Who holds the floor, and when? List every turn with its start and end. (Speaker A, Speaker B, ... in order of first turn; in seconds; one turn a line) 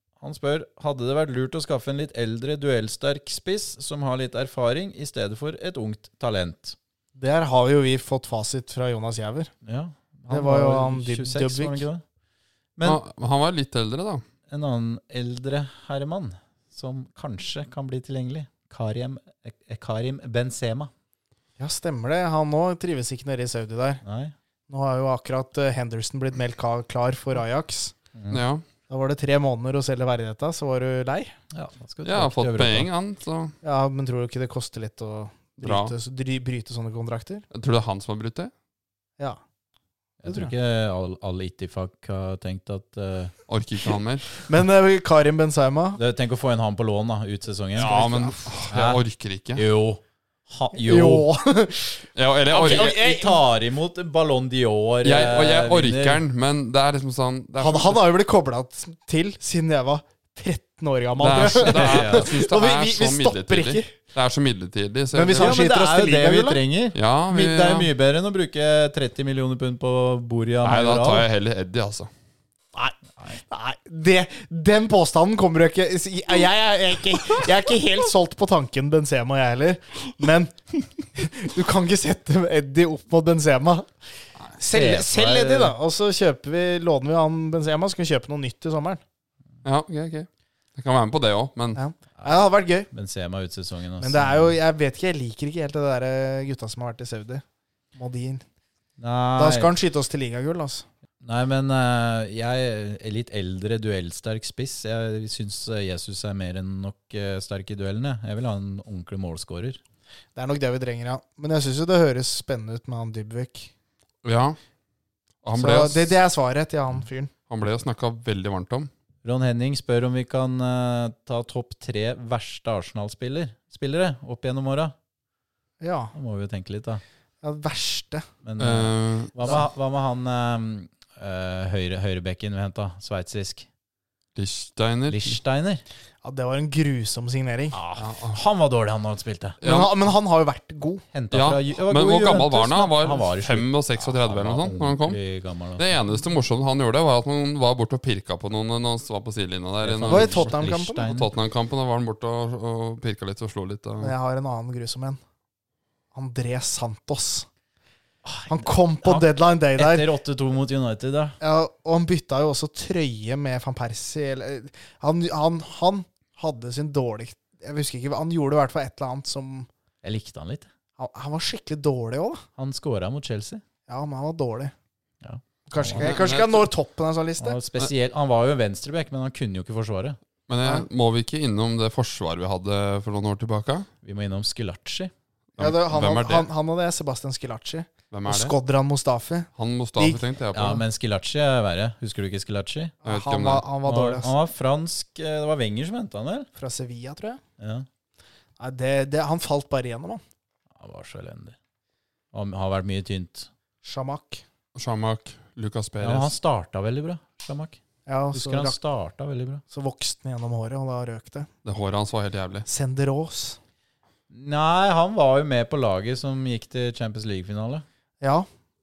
Speaker A: 0.2-6.8
Speaker B: 7.2-9.5
Speaker A: 9.6-12.0
Speaker B: 10.3-11.9
Speaker C: 12.8-14.2
Speaker A: 14.5-20.9
Speaker B: 21.6-24.0
Speaker A: 24.0-24.3
Speaker B: 24.7-27.9
Speaker A: 28.2-28.4
Speaker C: 28.3-28.6
Speaker B: 28.9-31.3
Speaker A: 31.5-32.9
Speaker C: 32.0-33.5
Speaker B: 33.6-37.5
Speaker C: 35.6-35.9
Speaker C: 37.5-38.5
Speaker A: 40.2-43.3
Speaker B: 40.3-40.5
Speaker C: 43.5-44.3
Speaker B: 44.4-46.0
Speaker A: 46.0-47.9
Speaker C: 47.8-49.6
Speaker B: 47.8-48.5
Speaker A: 48.7-49.0
Speaker A: 49.6-51.3
Speaker B: 50.8-53.4
Speaker C: 52.2-53.0
Speaker A: 52.5-56.2
Speaker C: 55.0-58.0
Speaker B: 57.6-63.9
Speaker C: 61.2-65.6
Speaker A: 61.2-62.3
Speaker B: 65.1-66.6
Speaker A: 65.4-71.3
Speaker C: 67.0-67.9
Speaker C: 70.6-72.1
Speaker B: 73.5-83.9
Speaker B: 84.6-89.0
Speaker A: 84.7-85.8
Speaker C: 89.6-91.8
Speaker B: 91.8-92.9
Speaker A: 92.2-94.5
Speaker B: 94.0-97.4
Speaker B: 98.0-98.4
Speaker A: 99.0-99.7
Speaker B: 99.4-100.9
Speaker A: 101.2-109.8
Speaker B: 110.3-113.7
Speaker C: 114.2-114.6
Speaker C: 115.4-116.2
Speaker B: 115.6-117.3
Speaker C: 117.5-118.9
Speaker A: 119.2-124.9
Speaker B: 125.8-126.1
Speaker A: 126.2-127.0
Speaker B: 127.4-128.2
Speaker A: 128.4-133.7
Speaker C: 128.6-129.6
Speaker C: 134.4-135.4
Speaker A: 135.1-135.8
Speaker B: 136.2-137.8
Speaker A: 137.7-139.6
Speaker C: 138.0-138.4
Speaker C: 139.6-140.0
Speaker B: 139.6-141.0
Speaker A: 141.1-145.9
Speaker C: 141.3-145.2
Speaker C: 145.8-154.2
Speaker A: 149.8-151.3
Speaker B: 150.1-151.1
Speaker B: 154.0-155.2
Speaker B: 156.1-157.5
Speaker A: 158.2-161.4
Speaker B: 158.5-160.1
Speaker B: 161.4-169.7
Speaker A: 170.0-170.7
Speaker B: 171.0-172.4
Speaker A: 172.6-173.6
Speaker B: 173.9-174.7
Speaker A: 175.2-176.1
Speaker B: 175.7-177.6
Speaker C: 176.0-176.7
Speaker A: 177.4-180.2
Speaker C: 180.5-183.9
Speaker A: 184.0-185.1
Speaker C: 185.6-186.5
Speaker B: 185.6-190.2
Speaker C: 188.1-188.6
Speaker C: 189.6-190.8
Speaker A: 190.5-192.9
Speaker B: 193.0-194.3
Speaker C: 193.1-193.7
Speaker A: 193.8-196.5
Speaker B: 196.6-197.4
Speaker A: 197.6-197.9
Speaker B: 198.6-200.2
Speaker A: 200.8-201.6
Speaker A: 202.3-203.5
Speaker B: 203.8-204.4
Speaker C: 204.8-206.3
Speaker A: 206.0-207.8
Speaker B: 208.1-208.8
Speaker A: 208.3-209.6
Speaker B: 209.7-211.5
Speaker C: 211.7-212.7
Speaker B: 212.7-213.6
Speaker A: 214.3-217.8
Speaker B: 218.2-218.5